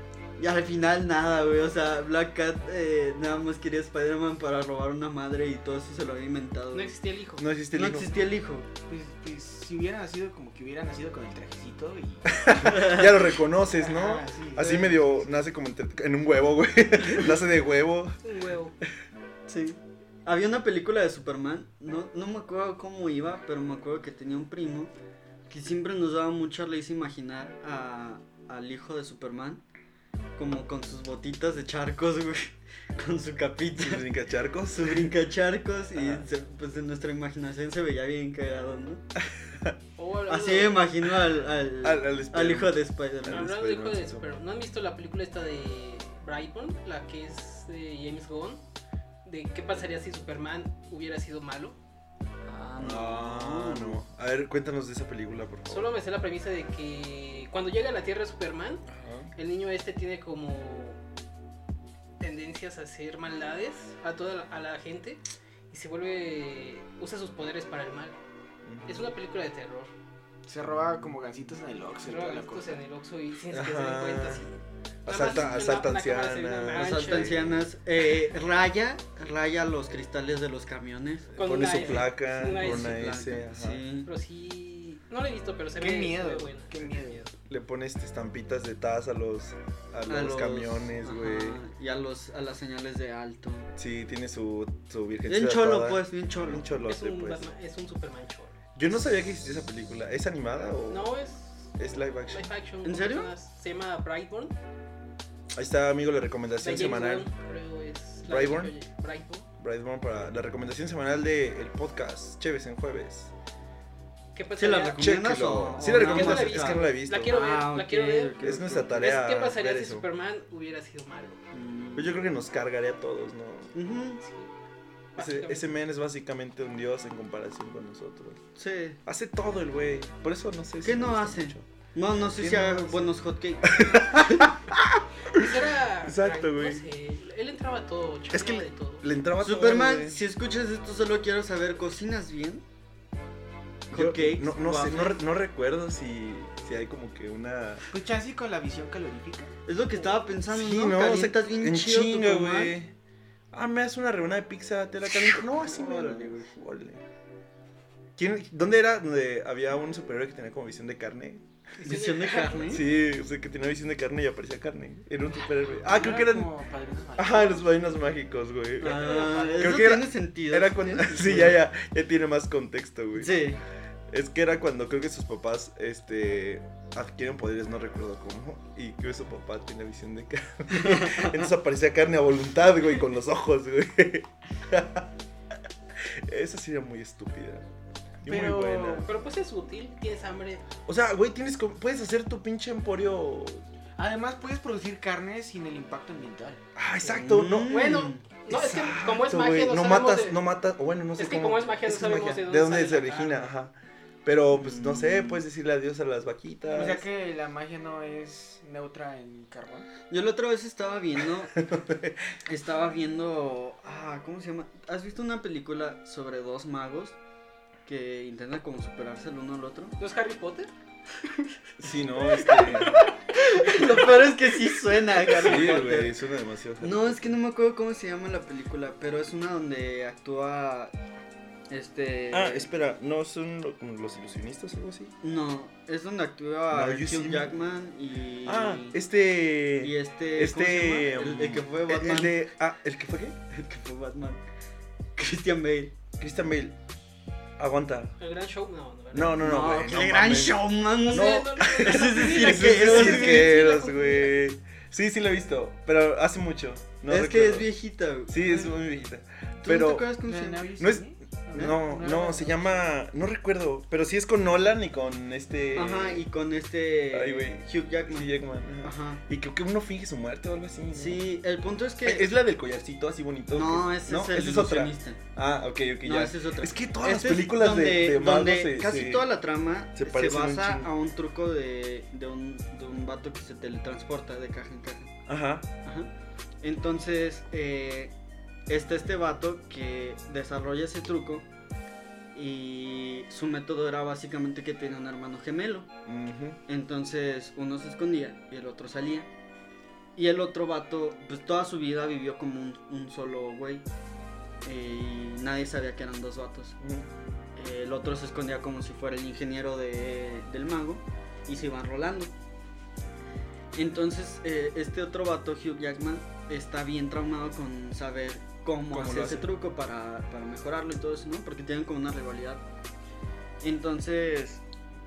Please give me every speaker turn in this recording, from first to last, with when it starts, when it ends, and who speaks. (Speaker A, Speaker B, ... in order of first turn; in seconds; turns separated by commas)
Speaker A: 0.4-6.9, Speaker B: 6.7-7.5, Speaker C: 7.4-8.2, Speaker A: 7.7-8.7, Speaker D: 8.9-12.8, Speaker C: 12.3-18.2, Speaker A: 12.6-13.1, Speaker D: 13.7-15.2, Speaker B: 18.2-18.8, Speaker A: 19.5-24.9, Speaker A: 25.5-29.6, Speaker A: 30.4-34.1, Speaker C: 33.8-35.1, Speaker A: 34.8-39.0, Speaker C: 36.0-36.2, Speaker C: 39.5-39.8, Speaker B: 40.0-40.8, Speaker A: 40.3-43.5, Speaker C: 41.8-44.3, Speaker B: 43.3-48.6, Speaker B: 49.2-51.8, Speaker A: 52.5-54.0, Speaker C: 52.8-55.9, Speaker B: 55.7-58.8, Speaker C: 58.9-59.3, Speaker B: 59.4-61.0, Speaker B: 62.2-68.2, Speaker C: 68.7-69.1, Speaker B: 68.9-69.9, Speaker D: 70.5-72.8, Speaker B: 72.0-77.3, Speaker C: 73.5-74.5, Speaker C: 75.1-77.6, Speaker A: 76.7-84.1, Speaker C: 81.4-83.8, Speaker B: 81.4-83.0, Speaker B: 84.1-87.3, Speaker D: 85.8-87.3, Speaker C: 87.5-91.6, Speaker A: 90.1-93.7, Speaker C: 93.8-97.4, Speaker A: 95.3-96.7, Speaker B: 96.8-98.6, Speaker C: 98.8-101.1, Speaker B: 100.9-104.5, Speaker C: 101.8-102.5, Speaker A: 102.8-103.3, Speaker C: 105.5-107.3, Speaker B: 106.6-109.5, Speaker C: 108.3-108.8, Speaker C: 109.6-113.3, Speaker B: 114.3-115.1, Speaker A: 114.6-119.2, Speaker C: 115.0-117.4, Speaker B: 115.8-118.4, Speaker C: 118.4-120.1, Speaker B: 119.0-121.4, Speaker A: 121.5-122.2, Speaker C: 122.0-123.7, Speaker A: 123.7-124.2, Speaker B: 124.2-124.5, Speaker B: 125.2-125.7, Speaker C: 125.2-128.4, Speaker A: 128.6-129.0, Speaker C: 129.1-136.8, Speaker A: 130.8-134.5, Speaker B: 135.3-139.1, Speaker C: 138.3-140.2, Speaker A: 139.4-142.7, Speaker A: 143.9-145.2, Speaker C: 143.9-147.9, Speaker D: 147.9-149.5, Speaker A: 149.7-152.8, Speaker C: 150.5-152.9, Speaker C: 153.5-157.0, Speaker A: 155.3-156.5, Speaker C: 158.2-161.4, Speaker B: 161.8-162.8, Speaker A: 161.8-162.8, Speaker C: 162.7-166.5, Speaker D: 165.8-167.9, Speaker C: 167.2-173.3, Speaker A: 168.8-171.6, Speaker B: 169.0-169.7, Speaker A: 173.2-173.6, Speaker C: 174.1-185.1, Speaker A: 180.7-181.5, Speaker C: 186.0-187.7, Speaker C: 188.2-189.1, Speaker D: 188.2-189.1, Speaker B: 189.1-190.6, Speaker C: 190.9-193.6, Speaker D: 194.0-196.6, Speaker C: 196.8-197.8, Speaker A: 197.1-198.2, Speaker B: 197.6-200.4, Speaker C: 198.5-207.1, Speaker B: 201.2-203.5, Speaker A: 204.5-205.4, Speaker D: 206.7-209.9, Speaker A: 210.1-211.6, Speaker C: 211.5-212.4, Speaker A: 212.5-217.2, Speaker A: 217.9-219.9, Speaker B: 220.0-220.7, Speaker C: 221.8-223.0, Speaker B: 222.4-223.0, Speaker A: 222.5-226.2, Speaker C: 225.3-227.3, Speaker A: 226.8-230.9, Speaker A: 231.7-232.7, Speaker C: 232.3-235.1, Speaker A: 235.2-239.0, Speaker C: 236.7-237.5, Speaker C: 238.5-243.4, Speaker A: 239.8-242.4, Speaker A: 243.5-244.4, Speaker A: 245.2-245.9, Speaker C: 246.2-246.8, Speaker C: 247.6-248.2, Speaker B: 248.2-249.4, Speaker C: 249.1-257.7, Speaker A: 249.4-253.6, Speaker B: 251.0-254.3, Speaker A: 257.1-258.7, Speaker C: 258.3-260.1, Speaker A: 259.6-260.7, Speaker D: 260.2-262.9, Speaker C: 260.8-266.3, Speaker A: 265.8-269.2, Speaker C: 267.1-271.2, Speaker A: 270.9-272.3, Speaker C: 272.0-279.3, Speaker A: 273.5-275.2, Speaker A: 276.0-285.1, Speaker C: 279.9-280.9, Speaker C: 285.3-285.7, Speaker A: 285.9-286.1, Speaker A: 286.6-288.1, Speaker A: 288.7-291.5, Speaker A: 292.4-295.9, Speaker C: 296.1-296.6, Speaker A: 296.7-299.3, Speaker A: 300.2-303.9, Speaker A: 304.6-306.8, Speaker C: 306.8-307.1, Speaker A: 307.6-312.3, Speaker A: 313.8-322.6, Speaker C: 318.9-319.5, Speaker A: 323.6-324.6